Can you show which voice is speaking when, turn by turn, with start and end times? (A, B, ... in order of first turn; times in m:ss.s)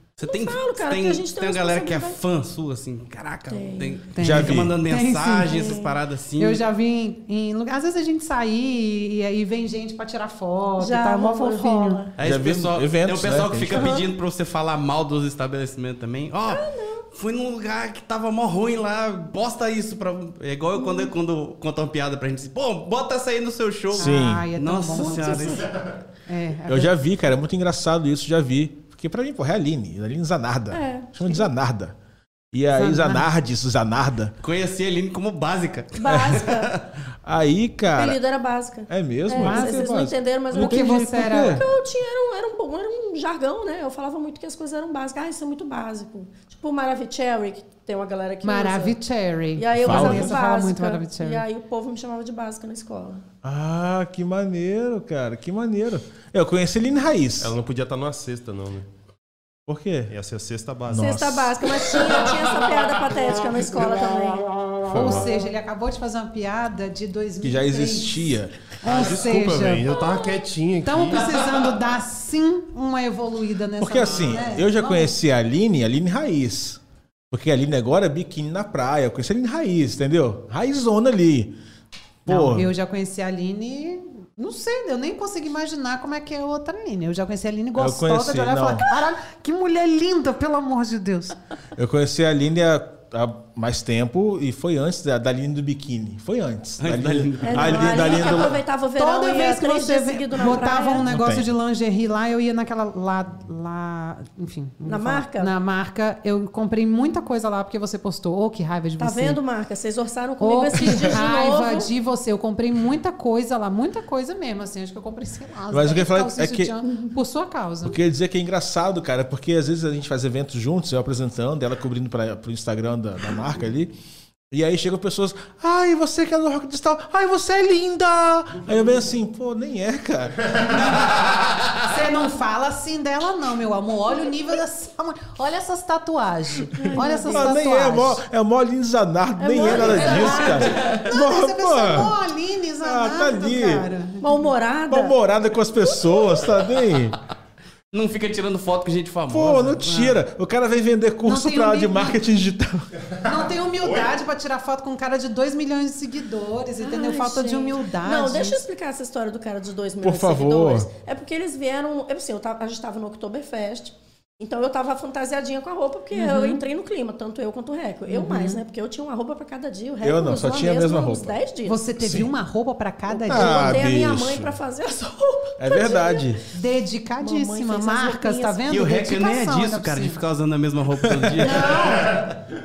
0:00.2-0:06.6 A
0:00.2-0:02.2 B
0:03.5-0:04.0 B
0:04.1-0:05.6 C
0:04.2-0:04.8 D
0:05.4-0:06.0 B
0:06.4-0:12.0 C
0:10.8-0:12.2 B
0:12.2-0:25.7 A
0:12.2-0:14.0 D
0:13.7-0:14.1 B
0:16.5-0:17.1 B
0:20.8-0:21.1 B
0:24.0-0:24.5 D
0:24.0-0:25.6 C
0:25.0-0:25.7 B
0:26.3-0:26.9 C
0:26.7-0:32.0 D
0:30.7-0:31.5 B
0:32.5-0:34.4 D
0:32.7-0:33.3 C
0:34.4-0:36.8 A
0:36.0-0:36.7 B
0:36.1-0:36.5 D
0:37.2-0:38.2 D
0:37.9-0:49.0 B
0:38.9-0:41.6 D
0:39.4-0:40.0 C
0:40.5-0:41.6 C
0:48.4-0:51.4 C
0:49.6-0:53.2 B
0:49.8-0:50.4 D
0:53.4-0:57.6 D
0:57.4-0:58.9 E
0:59.7-1:00.1 D
1:00.1-1:01.2 E
1:00.9-1:01.8 D
1:01.0-1:04.5 B
1:04.9-1:05.3 E
1:04.9-1:09.9 C
1:07.4-1:08.6 D
1:08.9-1:11.7 E
1:09.9-1:10.4 B
1:10.8-1:15.2 C
1:13.8-1:21.6 D
1:22.3-1:22.7 D
1:22.3-1:31.4 C
1:27.8-1:28.9 D
1:31.8-1:38.6 D
1:36.8-1:38.4 A
1:37.4-1:41.1 B
1:39.0-1:49.4 C
1:41.0-1:41.5 D
1:44.8-1:45.5 B
1:49.0-1:51.9 B
1:50.4-1:58.0 C
1:55.7-1:56.8 D
1:57.8-2:03.9 D
2:04.5-2:10.9 D
2:11.8-2:18.2 C
2:16.7-2:17.6 B
2:17.3-2:22.2 D
2:19.4-2:21.0 B
2:19.6-2:24.5 C
2:22.8-2:23.9 D
2:24.2-2:25.2 B
2:24.9-2:27.2 D
2:25.8-2:26.5 B
2:27.9-2:30.2 A
2:29.3-2:32.9 D
2:31.2-2:32.2 C
2:33.2-2:38.6 C
2:36.8-2:51.8 B
2:40.0-2:40.9 D
2:46.1-2:46.6 C
2:48.1-2:48.6 C
2:50.0-2:51.4 D
2:51.7-2:53.9 C
2:52.0-2:52.3 D
2:53.1-2:56.4 B
2:53.3-2:54.6 D
2:55.6-2:56.4 D
2:56.5-3:00.2 C
2:57.2-2:58.6 B
2:58.7-3:01.9 A
3:01.4-3:02.3 C